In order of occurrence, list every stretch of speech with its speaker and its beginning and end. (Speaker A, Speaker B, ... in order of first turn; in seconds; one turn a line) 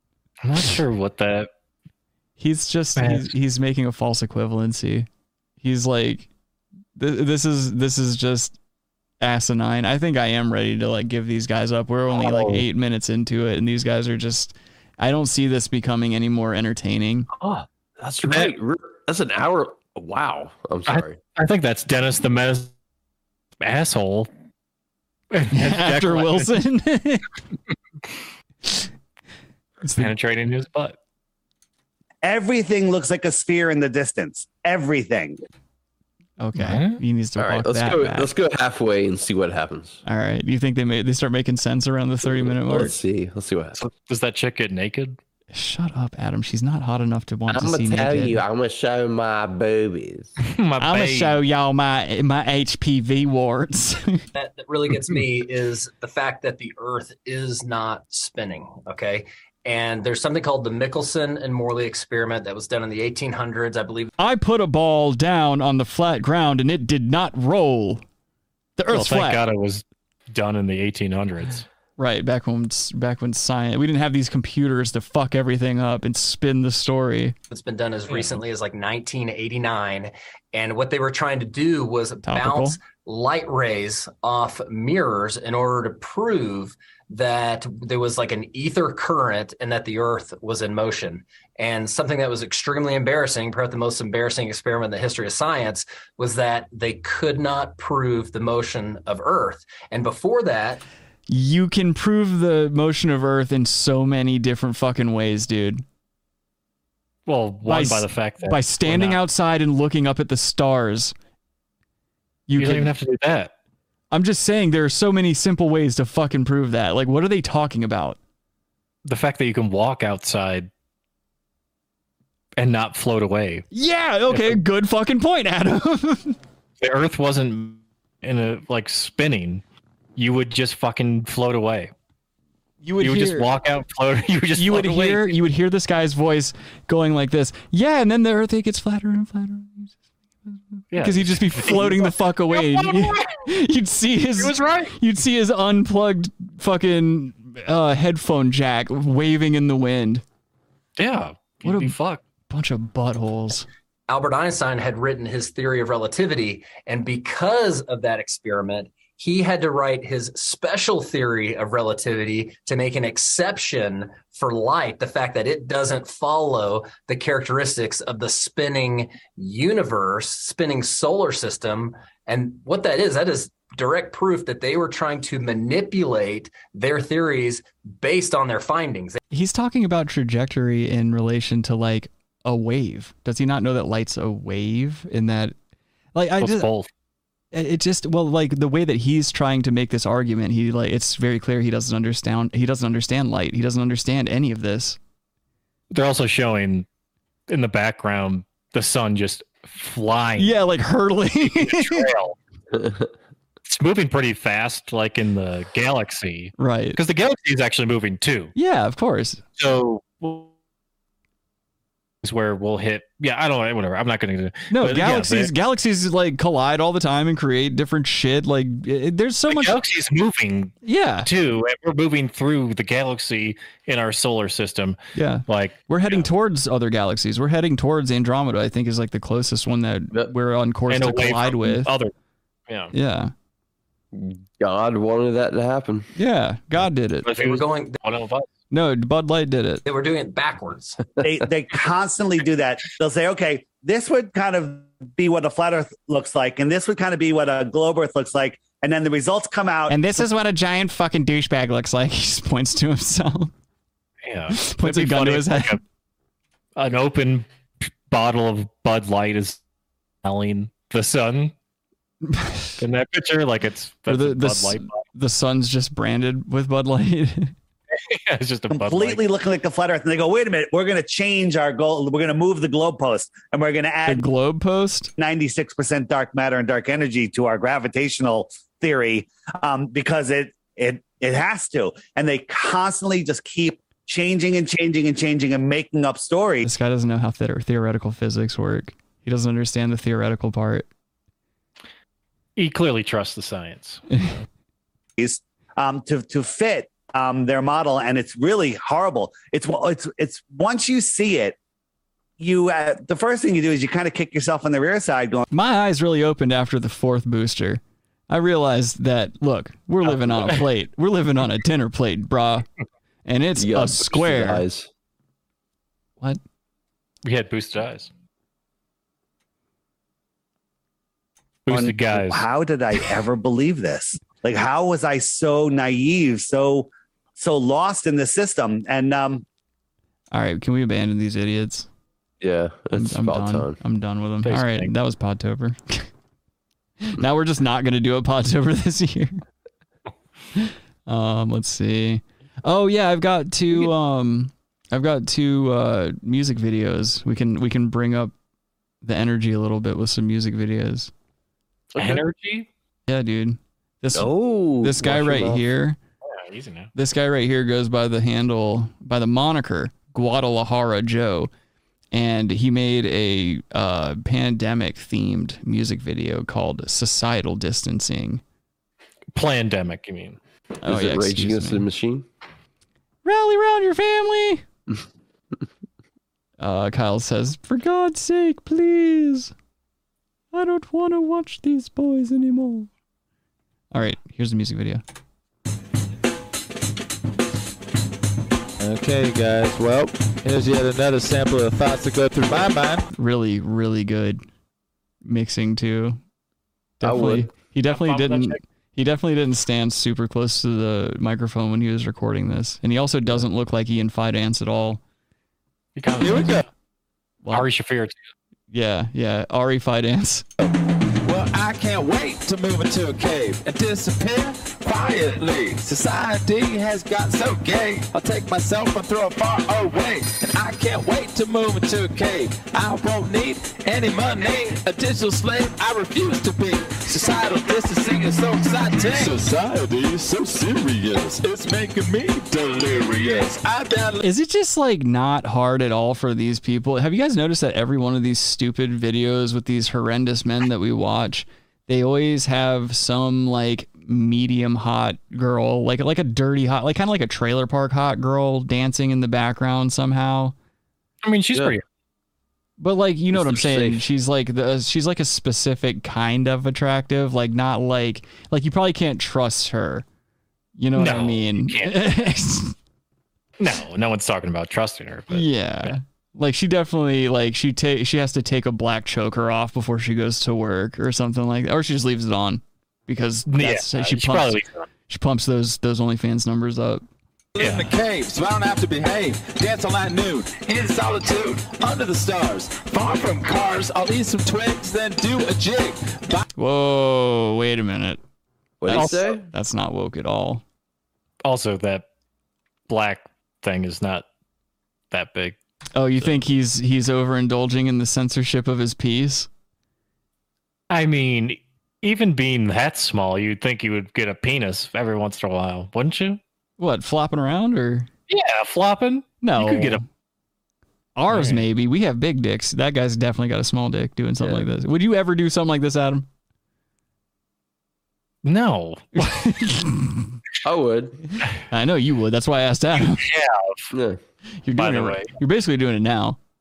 Speaker A: 0.4-1.5
Speaker B: 2.4-5.1
Speaker A: 3.0-3.3
Speaker B: 5.6-6.3
Speaker B: 7.0-8.6
Speaker B: 9.2-17.3
Speaker A: 12.1-12.6
Speaker A: 17.4-18.5
Speaker C: 18.2-21.2
Speaker A: 20.9-22.7
Speaker A: 23.6-24.3
Speaker A: 25.3-26.6
Speaker B: 25.5-27.2
Speaker B: 29.8-30.1
Speaker A: 29.9-31.0
Speaker D: 32.2-35.4
Speaker B: 36.4-38.3
Speaker A: 36.5-37.0
Speaker C: 37.4-40.0
Speaker B: 40.0-42.9
Speaker C: 42.2-43.8
Speaker A: 43.8-45.2
Speaker B: 45.5-48.4
Speaker C: 47.5-50.3
Speaker A: 50.4-51.4
Speaker B: 50.8-54.2
Speaker E: 54.3-64.1
Speaker B: 64.2-68.0
Speaker B: 68.8-69.4
Speaker A: 68.9-71.6
Speaker B: 72.0-77.3
Speaker E: 77.5-100.8
Speaker A: 78.1-78.4
Speaker B: 82.2-82.8
Speaker B: 101.3-105.8
Speaker A: 107.2-109.2
Speaker B: 107.6-111.1
Speaker B: 112.5-112.9
Speaker A: 112.5-113.5
Speaker B: 114.1-118.2
Speaker A: 119.0-120.7
Speaker A: 122.6-123.7
Speaker B: 123.7-126.3
Speaker A: 124.3-124.6
Speaker A: 126.8-129.6
Speaker A: 130.2-131.9
Speaker B: 132.8-133.5
Speaker A: 133.0-135.3
Speaker B: 134.6-150.2
Speaker A: 140.9-143.3
Speaker A: 144.4-144.9
Speaker A: 151.0-152.2
Speaker B: 151.6-151.9
Speaker B: 152.5-153.7
Speaker E: 154.1-179.2
Speaker B: 179.3-185.5
Speaker B: 186.1-186.7
Speaker A: 186.4-186.9
Speaker B: 187.5-195.0
Speaker A: 195.9-196.8
Speaker A: 197.5-200.6
Speaker B: 200.4-202.1
Speaker A: 201.4-202.4
Speaker C: 202.7-203.1
Speaker A: 203.6-208.5
Speaker B: 206.6-207.0
Speaker B: 208.6-209.4
Speaker A: 209.6-210.5
Speaker A: 212.2-215.5
Speaker B: 214.7-219.8
Speaker A: 219.5-226.3
Speaker B: 220.8-221.3
Speaker B: 225.1-231.9
Speaker A: 230.9-232.1
Speaker A: 232.7-232.9
Speaker B: 232.9-233.3
Speaker C: 234.1-236.1
Speaker B: 236.1-237.4
Speaker A: 237.2-238.5
Speaker E: 237.4-238.0
Speaker B: 238.7-239.8
Speaker E: 239.8-241.0
Speaker D: 241.2-250.0
Speaker B: 249.9-253.5
Speaker A: 254.2-255.8
Speaker B: 254.5-255.8
Speaker A: 256.8-259.6
Speaker A: 260.2-261.5
Speaker B: 262.2-262.8
Speaker A: 262.8-265.0
Speaker B: 264.1-267.5
Speaker A: 267.9-269.2
Speaker D: 268.7-274.2
Speaker B: 274.1-275.1
Speaker D: 275.2-286.7
Speaker B: 286.6-290.9
Speaker A: 292.6-294.0
Speaker D: 295.2-301.6
Speaker D: 302.4-305.4
Speaker B: 305.5-312.6
Speaker A: 310.0-310.6
Speaker B: 313.2-314.6
Speaker C: 313.6-314.9
Speaker A: 317.2-318.1
Speaker A: 321.6-322.4
Speaker D: 321.7-329.4
Speaker B: 330.3-331.9
Speaker C: 332.4-333.8
Speaker B: 332.9-336.1
Speaker A: 334.4-334.9
Speaker B: 337.0-339.4
Speaker B: 340.6-348.3
Speaker B: 349.0-351.1
Speaker C: 351.9-352.2
Speaker A: 352.0-352.7
Speaker B: 353.1-356.0
Speaker C: 354.1-355.6
Speaker A: 356.2-356.9
Speaker B: 356.9-361.5
Speaker B: 362.1-368.4
Speaker A: 369.3-370.4
Speaker B: 370.8-371.9
Speaker C: 370.8-372.2
Speaker B: 373.2-374.6
Speaker B: 376.6-379.5
Speaker B: 380.5-382.9
Speaker B: 383.9-385.0
Speaker F: 388.8-393.1
Speaker B: 393.1-394.4
Speaker B: 395.2-396.2
Speaker B: 397.0-405.0
Speaker C: 397.0-397.5
Speaker A: 397.9-398.6
Speaker A: 405.9-406.7
Speaker F: 406.2-406.6
Speaker A: 407.5-408.2
Speaker B: 408.7-410.4
Speaker F: 411.2-429.8
Speaker C: 429.8-431.4
Speaker F: 431.4-434.2
Speaker B: 434.2-450.5
Speaker A: 451.2-451.8
Speaker B: 452.8-460.0
Speaker C: 453.3-454.1
Speaker B: 460.8-462.7
Speaker A: 460.9-462.1
Speaker A: 463.6-465.9
Speaker B: 465.3-477.0
Speaker A: 473.5-474.9
Speaker F: 477.6-486.4
Speaker A: 477.6-477.9
Speaker B: 486.6-488.2
Speaker C: 488.8-489.4
Speaker B: 488.9-490.6
Speaker A: 488.9-489.4
Speaker A: 491.4-492.0
Speaker A: 492.9-494.2
Speaker A: 495.1-495.6
Speaker B: 495.9-499.5
Speaker A: 500.9-506.4
Speaker B: 506.8-508.1
Speaker A: 508.3-510.0
Speaker B: 509.4-510.1
Speaker B: 511.1-516.3
Speaker A: 511.3-511.6
Speaker A: 518.4-519.4
Speaker B: 519.1-520.3
Speaker C: 520.6-521.2
Speaker B: 521.7-523.3
Speaker A: 523.2-523.9
Speaker C: 523.9-524.2
Speaker B: 524.6-526.4
Speaker A: 524.8-525.3